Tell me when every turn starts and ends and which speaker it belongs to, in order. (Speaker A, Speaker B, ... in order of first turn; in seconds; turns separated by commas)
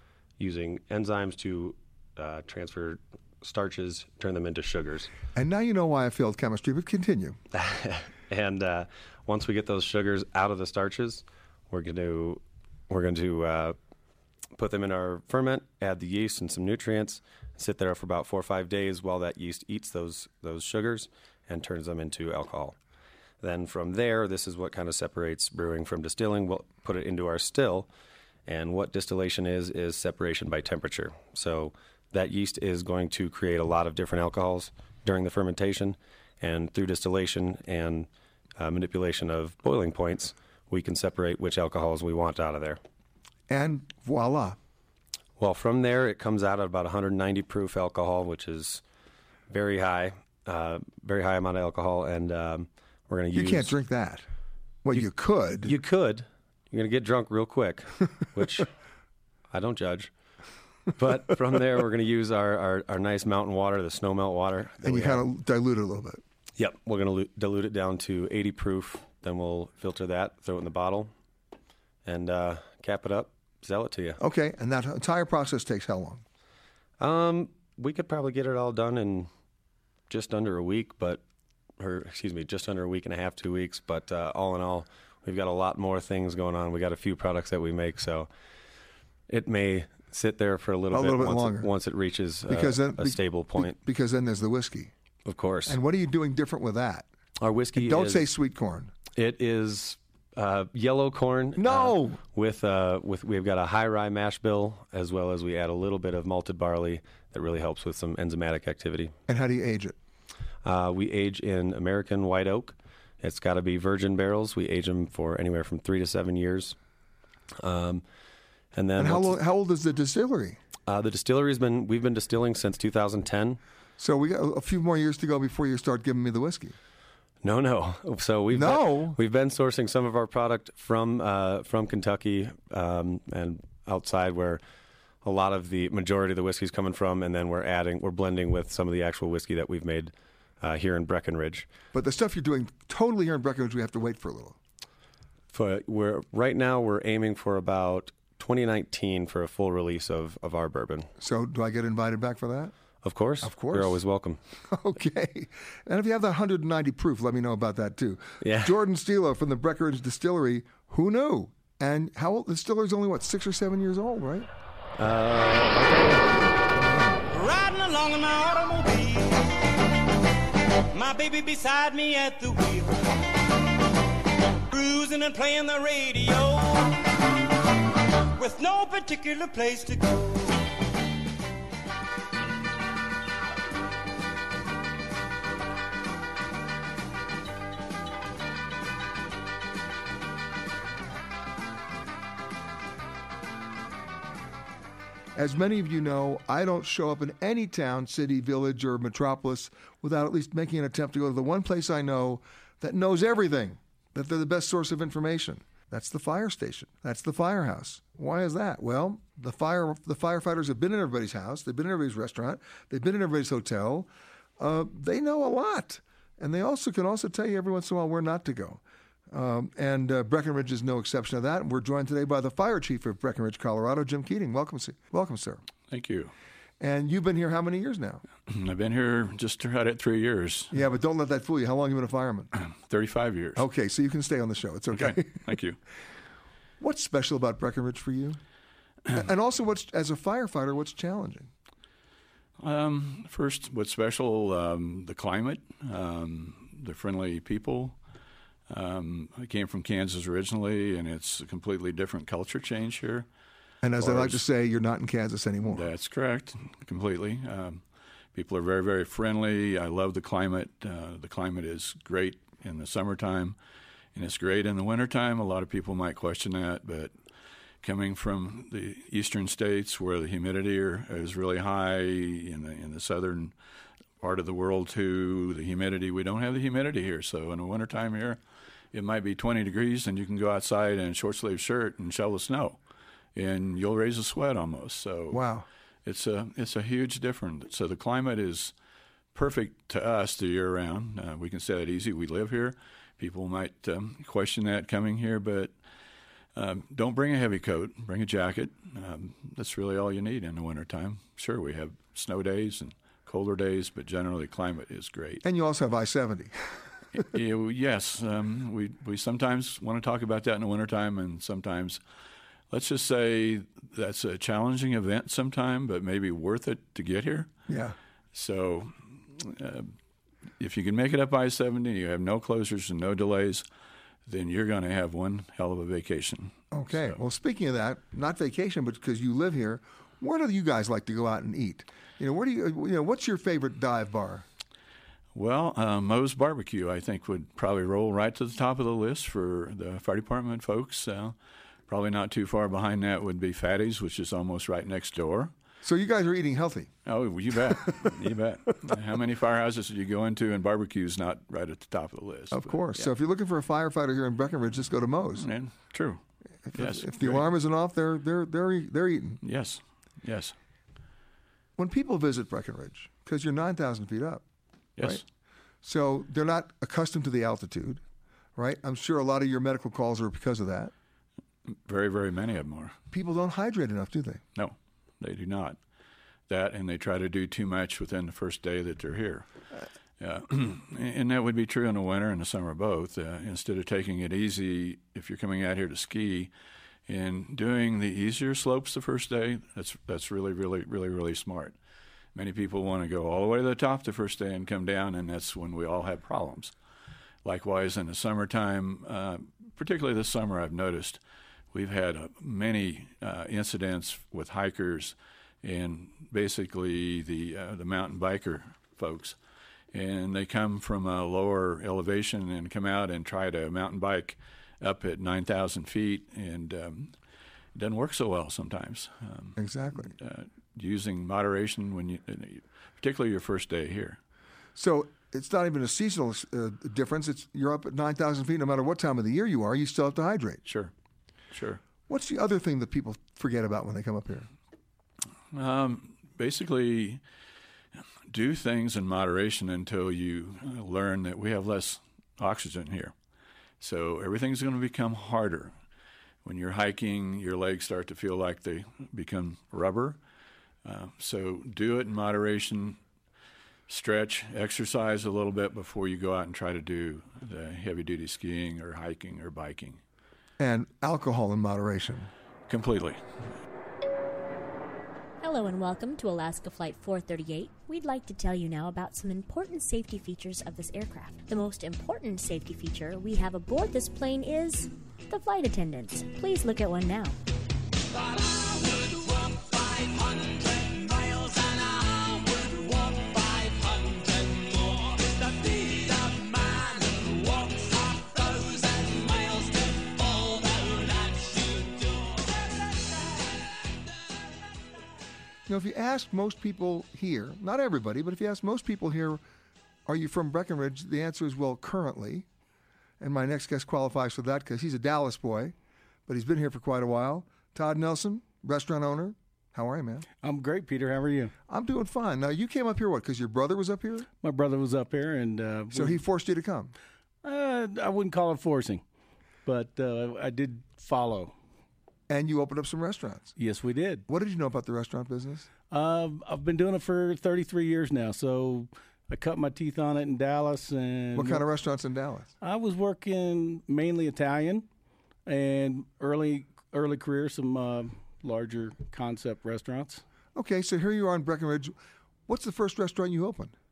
Speaker A: 0.4-5.1, Speaker B: 5.3-7.4, Speaker A: 7.5-13.8, Speaker A: 14.5-22.8, Speaker A: 23.4-27.9, Speaker A: 28.5-42.8, Speaker B: 43.5-44.6, Speaker A: 45.4-48.8, Speaker A: 49.5-53.7, Speaker B: 53.3-54.2, Speaker B: 54.8-55.7, Speaker A: 55.6-58.7, Speaker A: 59.5-60.1, Speaker A: 61.0-65.2, Speaker B: 64.8-66.2, Speaker A: 66.5-71.1, Speaker A: 72.0-74.2, Speaker B: 74.2-76.2, Speaker A: 77.0-79.3, Speaker A: 80.1-81.2, Speaker A: 81.8-88.3, Speaker A: 89.3-93.8, Speaker B: 90.9-91.7, Speaker B: 92.5-94.9, Speaker A: 95.2-95.8, Speaker B: 95.7-97.1, Speaker A: 97.4-98.3, Speaker B: 97.8-98.9, Speaker A: 99.1-109.1, Speaker B: 101.6-102.2, Speaker B: 109.3-110.0, Speaker A: 110.6-116.8, Speaker A: 117.6-118.0, Speaker A: 118.7-119.4, Speaker B: 119.0-120.6, Speaker A: 120.8-123.6, Speaker B: 124.0-126.7, Speaker A: 127.4-134.6, Speaker B: 128.5-129.2, Speaker A: 135.2-141.7, Speaker B: 141.9-144.6, Speaker A: 145.5-151.1, Speaker B: 151.2-152.7, Speaker A: 153.0-154.4, Speaker B: 153.4-154.0, Speaker B: 154.7-164.5, Speaker A: 158.4-158.8, Speaker A: 165.0-166.5, Speaker B: 166.6-167.2, Speaker C: 167.3-169.8, Speaker C: 170.9-173.1, Speaker C: 174.7-177.0, Speaker C: 178.3-180.5, Speaker B: 195.3-225.6, Speaker D: 225.9-226.3, Speaker B: 226.8-228.2, Speaker D: 228.5-230.7, Speaker B: 230.7-232.5, Speaker D: 232.6-233.6, Speaker B: 233.6-235.6, Speaker D: 234.9-235.8, Speaker B: 236.8-238.4, Speaker B: 239.1-241.5, Speaker D: 242.6-248.0, Speaker D: 248.7-253.3, Speaker B: 253.8-255.9, Speaker D: 254.0-254.4, Speaker D: 255.7-257.8, Speaker D: 258.3-263.6, Speaker D: 264.1-267.1, Speaker D: 267.8-273.5, Speaker D: 274.2-278.4, Speaker D: 278.9-282.8, Speaker D: 283.3-285.4, Speaker B: 285.3-285.6, Speaker D: 286.0-288.7, Speaker D: 289.3-295.7, Speaker D: 296.5-305.4, Speaker B: 305.4-306.6, Speaker D: 307.2-312.0, Speaker D: 312.7-317.5, Speaker B: 317.7-317.9, Speaker D: 318.3-319.9, Speaker D: 320.6-323.6, Speaker D: 324.3-327.1, Speaker B: 326.7-334.4, Speaker D: 335.3-341.4, Speaker D: 341.9-345.5, Speaker B: 345.8-346.9, Speaker D: 347.1-353.1, Speaker B: 347.6-348.3, Speaker B: 352.5-355.5, Speaker D: 355.4-356.2, Speaker B: 356.7-359.4, Speaker D: 356.7-357.5, Speaker D: 359.4-360.5, Speaker B: 361.8-364.4, Speaker D: 365.0-365.2, Speaker B: 365.8-368.0, Speaker B: 368.6-370.9, Speaker D: 371.7-372.9, Speaker B: 373.1-374.4, Speaker D: 374.6-375.8, Speaker D: 376.5-379.4, Speaker D: 380.2-386.5, Speaker D: 387.1-391.7, Speaker D: 392.3-396.7, Speaker D: 397.4-401.2, Speaker D: 401.7-409.4, Speaker D: 409.9-417.1, Speaker D: 417.7-424.2, Speaker B: 419.6-420.1, Speaker B: 424.7-430.6, Speaker D: 430.6-430.9, Speaker D: 431.5-431.8, Speaker B: 432.1-434.5, Speaker D: 435.5-437.2, Speaker D: 438.3-443.1, Speaker D: 443.8-445.7, Speaker D: 446.4-450.2, Speaker D: 450.8-453.0, Speaker D: 453.9-460.0, Speaker B: 460.6-462.3, Speaker D: 462.7-463.2, Speaker E: 465.4-477.4, Speaker C: 478.3-492.3, Speaker B: 495.7-499.4, Speaker B: 500.1-502.4, Speaker B: 503.2-505.7, Speaker B: 506.3-510.2, Speaker F: 510.4-511.5, Speaker B: 511.7-514.3, Speaker F: 514.4-516.2, Speaker B: 515.9-516.9, Speaker F: 517.4-519.0, Speaker F: 519.6-521.5, Speaker B: 522.3-523.5, Speaker F: 523.6-524.2, Speaker B: 524.3-525.7, Speaker F: 525.9-531.6, Speaker B: 531.4-532.5, Speaker F: 532.6-534.9, Speaker F: 535.5-540.2, Speaker B: 540.5-542.0, Speaker B: 542.5-543.7